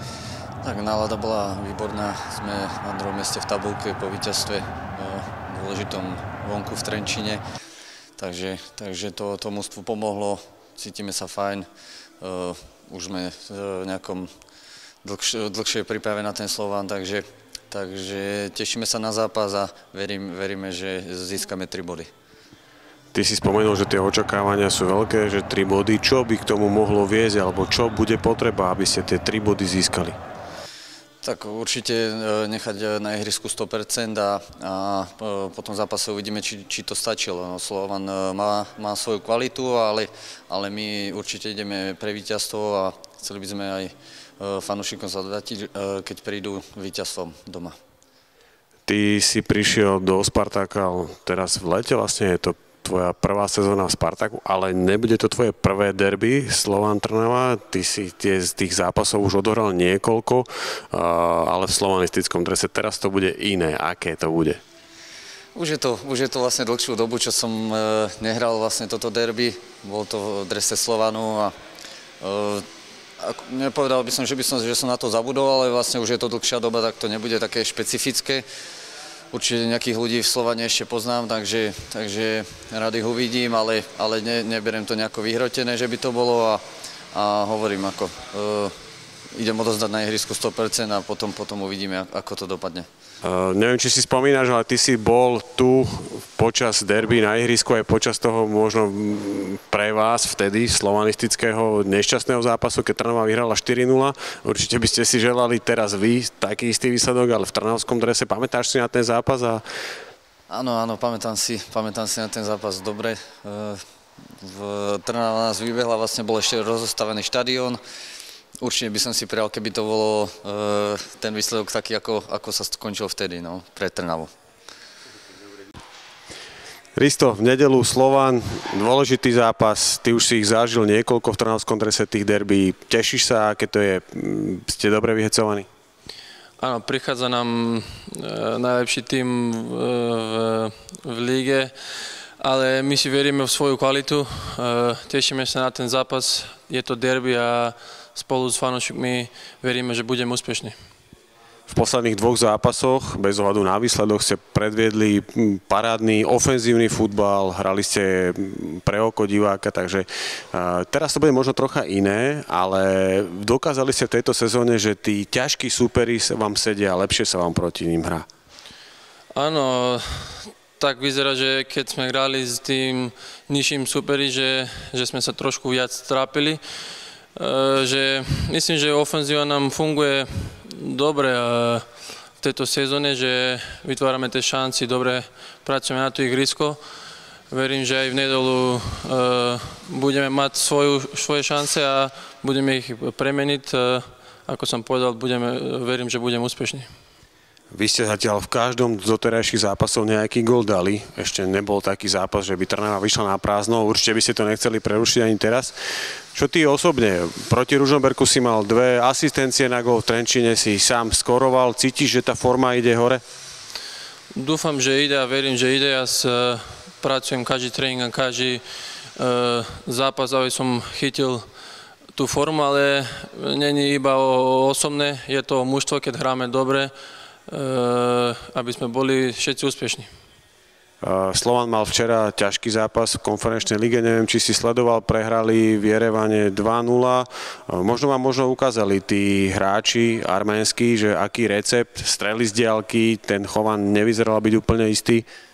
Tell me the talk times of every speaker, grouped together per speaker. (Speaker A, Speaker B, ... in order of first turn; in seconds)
Speaker A: 0.6-7.4, 8.2-11.7, 12.2-14.3, 15.0-22.1, 31.2-47.8, 65.5-71.5, 72.2-72.7, 73.2-78.5, 79.3-88.7, 89.3-92.9, 110.5-113.8, 114.4-117.8, 118.6-124.3
Speaker B: 23.1-30.2, 48.9-64.6, 93.2-109.6, 127.0-135.7, 151.7-168.3, 197.7-205.8, 206.3-213.2, 231.0-245.3
Speaker C: 136.6-141.7, 142.4-150.8, 169.3-176.6, 177.3-181.9, 182.4-186.8, 187.5-196.9, 214.3-218.6, 219.2-221.4, 222.1-226.9, 227.5-230.1